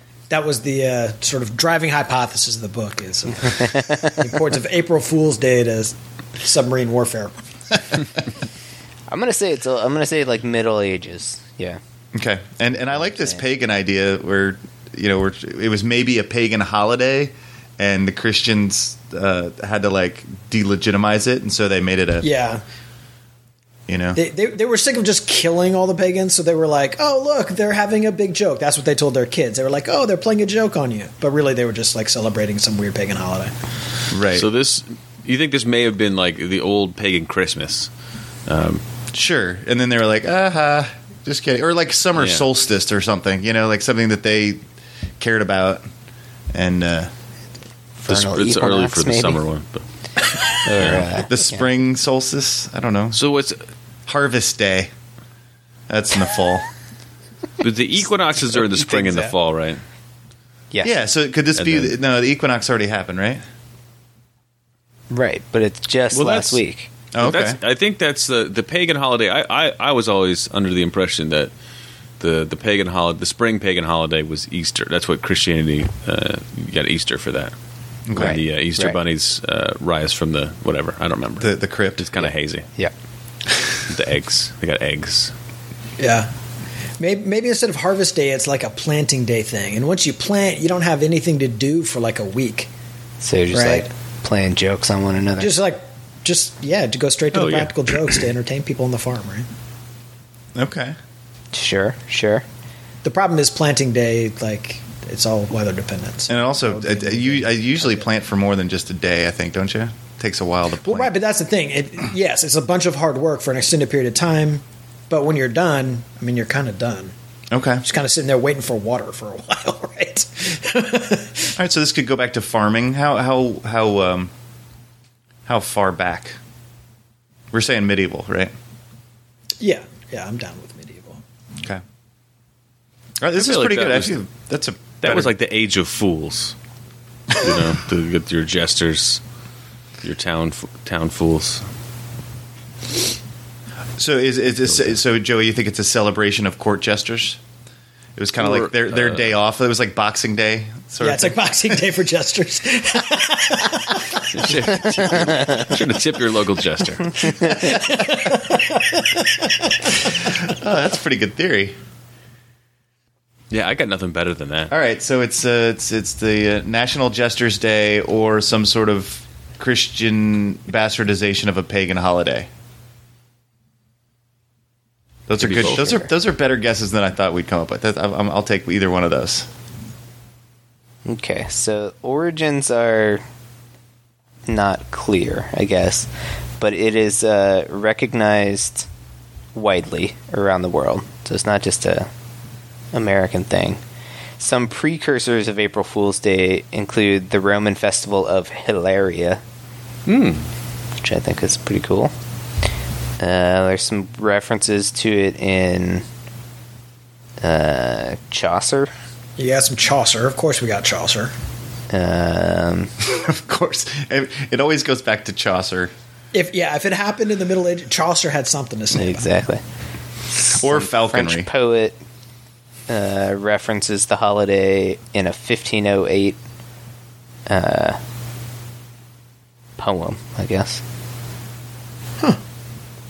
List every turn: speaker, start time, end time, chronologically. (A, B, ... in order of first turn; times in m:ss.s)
0:00.3-0:07.3 A
0:03.5-0:04.2 B
0:09.1-0:11.8 B
0:12.1-0:22.3 C
0:13.0-0:13.4 B
0:22.2-0:22.6 A
0:23.9-0:24.2 C
0:24.2-0:33.5 A
0:34.1-0:34.5 C
0:34.3-0:37.9 D
0:38.5-0:38.8 D
0:39.1-0:44.6 C
0:42.2-0:42.5 D
0:45.2-0:45.8 C
0:46.5-0:47.1 C
0:48.0-0:49.4 B
0:48.1-0:49.8 D
0:50.6-0:51.7 B
0:50.8-0:51.1 D
0:51.2-0:53.2 C
0:53.1-0:53.6 D
0:54.1-0:54.9 C
0:55.9-0:56.6 C
0:57.6-0:59.8 D
1:00.8-1:03.4 C
1:01.6-1:02.0 D
1:05.1-1:06.9 B
1:06.1-1:06.6 D
1:07.1-1:07.6 C
1:07.2-1:11.5 D
1:12.2-1:17.5 D
1:18.1-1:18.4 C
1:18.2-1:19.0 B
1:18.2-1:22.7 D
1:21.4-1:22.1 C
1:22.2-1:22.9 B
1:23.9-1:25.3 D
1:26.0-1:26.3 A
1:27.0-1:32.7 A
1:33.2-1:35.6 B
1:33.5-1:33.9 A
1:35.4-1:39.5 A
1:37.3-1:38.2 D
1:40.6-1:41.0 C
1:41.5-1:42.4 B
1:43.0-1:48.1 A
1:46.3-1:51.1 C
1:50.8-1:57.1 A
1:57.5-1:57.8 C
1:57.8-2:01.5 A
2:01.6-2:04.3 C
2:05.5-2:06.4 C
2:07.5-2:08.5 C
2:09.6-2:11.2 A
2:13.2-2:15.3 C
2:13.4-2:14.2 D
2:15.0-2:16.6 D
2:17.3-2:19.2 D
2:20.0-2:21.6 D
2:24.0-2:27.4 C
2:24.7-2:25.0 D
2:28.2-2:31.4 C
2:28.4-2:29.4 D
2:31.0-2:34.7 A
2:34.3-2:37.2 D
2:34.8-2:35.3 B
2:37.2-2:37.8 B
2:37.4-2:39.9 A
2:40.3-2:41.8 C
2:43.5-2:44.7 D
2:44.7-2:52.5 C
2:55.3-2:59.5 C
2:55.4-2:55.9 D
2:55.5-2:56.1 B
3:01.1-3:03.2 B
3:04.5-3:08.9 B
3:09.6-3:12.1 B
3:12.9-3:13.8 B
3:14.4-3:19.4 B
3:20.1-3:20.5 D
3:21.0-3:22.1 B
3:23.2-3:26.0 B
3:27.4-3:28.9 B
3:29.4-3:31.3 A
3:31.9-3:32.9 B
3:33.0-3:35.9 C
3:36.3-3:39.3 A
3:38.9-3:39.6 B
3:40.4-3:42.0 B
3:40.5-3:41.5 C
3:42.9-3:46.4 B
3:47.5-3:48.0 B
3:49.8-3:50.8 B